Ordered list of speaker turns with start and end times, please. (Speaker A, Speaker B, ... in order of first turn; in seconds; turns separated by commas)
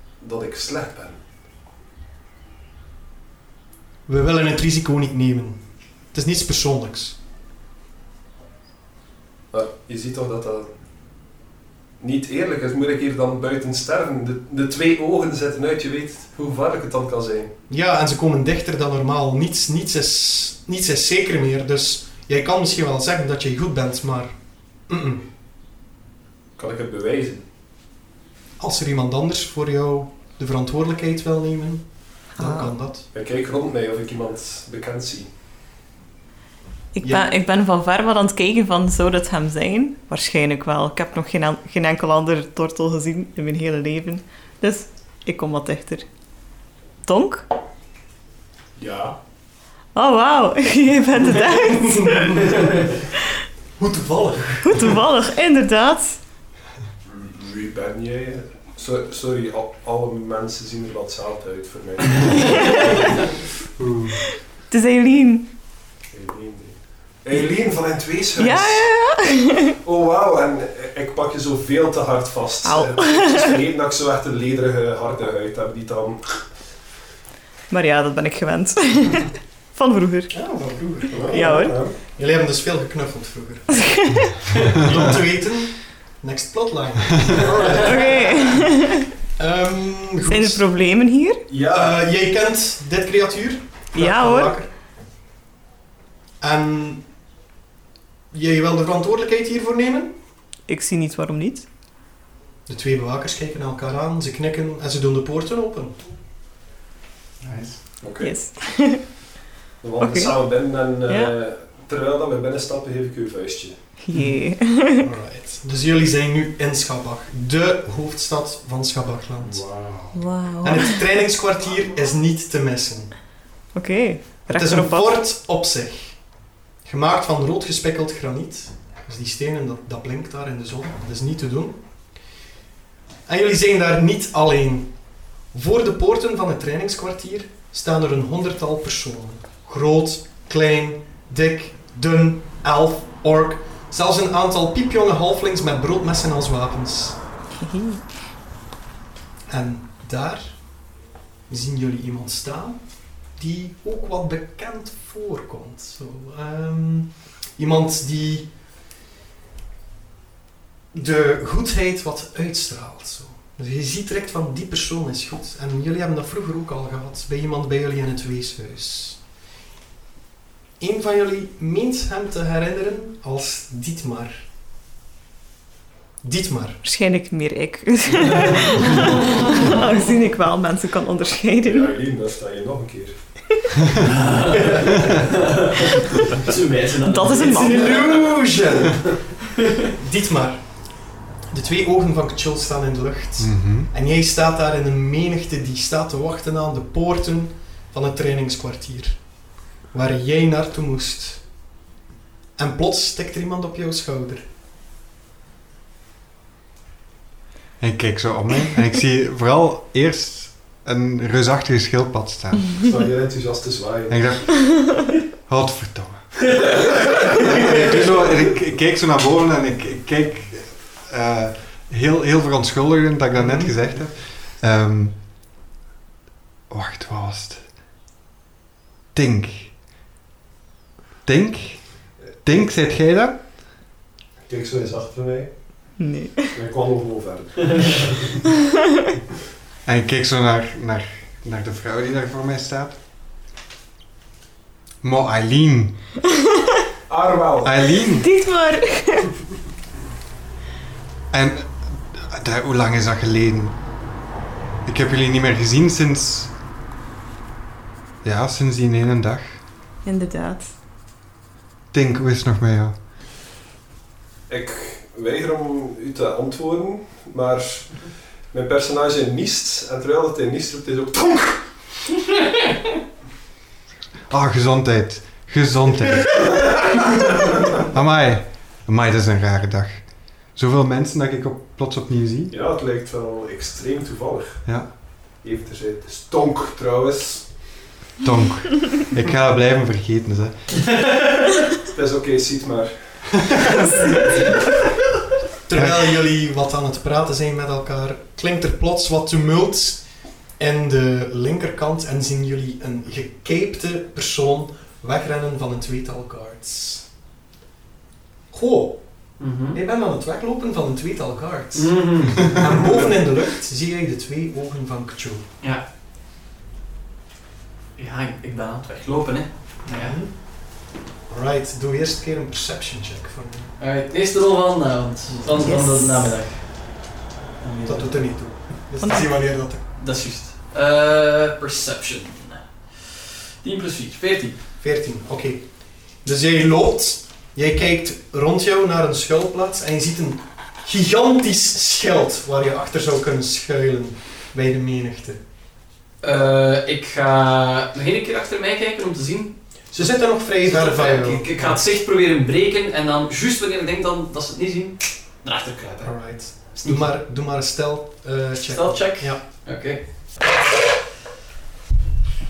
Speaker A: 0.2-1.2, Speaker B: 4.1-7.2, Speaker A: 9.5-10.7, Speaker A: 12.0-17.5, Speaker B: 17.7-24.3, Speaker B: 24.9-25.2, Speaker A: 26.6-27.4, Speaker B: 28.6-33.1, Speaker C: 32.4-32.7, Speaker A: 33.1-35.3, Speaker C: 36.9-46.1, Speaker B: 37.0-37.3, Speaker C: 47.0-47.5, Speaker A: 48.8-49.2, Speaker C: 49.9-52.6, Speaker B: 51.7-52.6, Speaker B: 53.8-54.9, Speaker C: 54.6-56.2, Speaker A: 57.0-63.2, Speaker C: 62.3-63.1, Speaker D: 63.8-64.2, Speaker C: 64.7-65.5, Speaker A: 66.1-68.9, Speaker C: 68.3-69.8, Speaker A: 69.8-76.4, Speaker C: 72.6-73.6, Speaker C: 77.7-80.3, Speaker B: 80.3-83.8, Speaker A: 81.1-82.0, Speaker C: 81.2-81.8, Speaker C: 83.8-84.3, Speaker B: 84.6-88.6, Speaker C: 87.8-89.1, Speaker B: 89.4-90.6, Speaker C: 90.3-91.5, Speaker A: 91.5-92.0, Speaker B: 91.6-94.7, Speaker C: 93.9-94.6, Speaker B: 96.4-97.0, Speaker B: 98.3-100.1, Speaker C: 100.7-101.7, Speaker B: 102.7-106.0, Speaker D: 107.4-107.8, Speaker A: 108.0-108.3, Speaker C: 108.2-109.1, Speaker A: 109.8-113.7, Speaker C: 110.0-110.4, Speaker C: 111.0-111.3, Speaker C: 114.0-115.1, Speaker B: 114.1-114.4, Speaker B: 115.0-119.6, Speaker A: 119.4-120.2, Speaker C: 120.1-121.0, Speaker B: 120.6-123.1, Speaker C: 123.7-125.1, Speaker B: 124.5-126.2, Speaker B: 126.8-131.8, Speaker B: 133.3-134.9, Speaker B: 135.5-147.2, Speaker C: 147.6-148.0, Speaker B: 149.5-150.6, Speaker B: 151.5-152.8, Speaker B: 153.3-158.5, Speaker B: 160.9-169.2, Speaker B: 170.8-174.4, Speaker B: 176.2-176.8, Speaker C: 176.8-181.9, Speaker A: 181.6-183.3, Speaker E: 184.0-188.3, Speaker C: 187.0-188.2, Speaker B: 187.5-189.1, Speaker B: 189.9-190.6, Speaker B: 191.5-199.2, Speaker D: 193.4-193.9, Speaker B: 199.9-201.4, Speaker B: 202.6-204.4, Speaker D: 207.8-212.8, Speaker A: 212.8-214.4, Speaker D: 214.1-216.7, Speaker A: 216.7-218.6, Speaker D: 217.4-225.1, Speaker B: 223.4-223.7, Speaker D: 226.7-227.6, Speaker D: 229.1-229.8, Speaker D: 231.2-233.4, Speaker A: 234.5-235.8, Speaker C: 236.0-236.5, Speaker A: 236.5-238.4, Speaker D: 239.8-243.0, Speaker D: 245.0-246.0, Speaker A: 247.1-247.9, Speaker D: 247.6-248.3, Speaker C: 248.2-249.3, Speaker D: 251.3-253.8, Speaker D: 254.8-256.5, Speaker D: 258.2-259.6, Speaker C: 260.0-260.7, Speaker D: 261.9-262.9, Speaker A: 264.5-271.8, Speaker D: 274.3-276.8, Speaker D: 277.8-282.5, Speaker A: 282.5-284.7, Speaker A: 285.4-287.6, Speaker D: 288.2-290.5, Speaker E: 290.8-291.6, Speaker A: 291.9-294.5, Speaker B: 295.7-307.1, Speaker D: 295.7-296.1, Speaker B: 308.5-315.4, Speaker E: 309.4-309.8, Speaker E: 311.7-312.8, Speaker E: 318.0-320.2, Speaker B: 319.9-320.6, Speaker B: 321.3-323.7, Speaker E: 323.8-327.0, Speaker C: 325.5-326.3, Speaker E: 327.6-328.4, Speaker B: 327.9-329.8, Speaker C: 329.0-329.3, Speaker E: 330.0-334.6, Speaker B: 334.8-335.7, Speaker B: 336.2-345.4, Speaker E: 346.2-349.6, Speaker B: 349.9-351.8, Speaker E: 350.6-357.1, Speaker B: 356.0-359.4, Speaker E: 358.7-360.0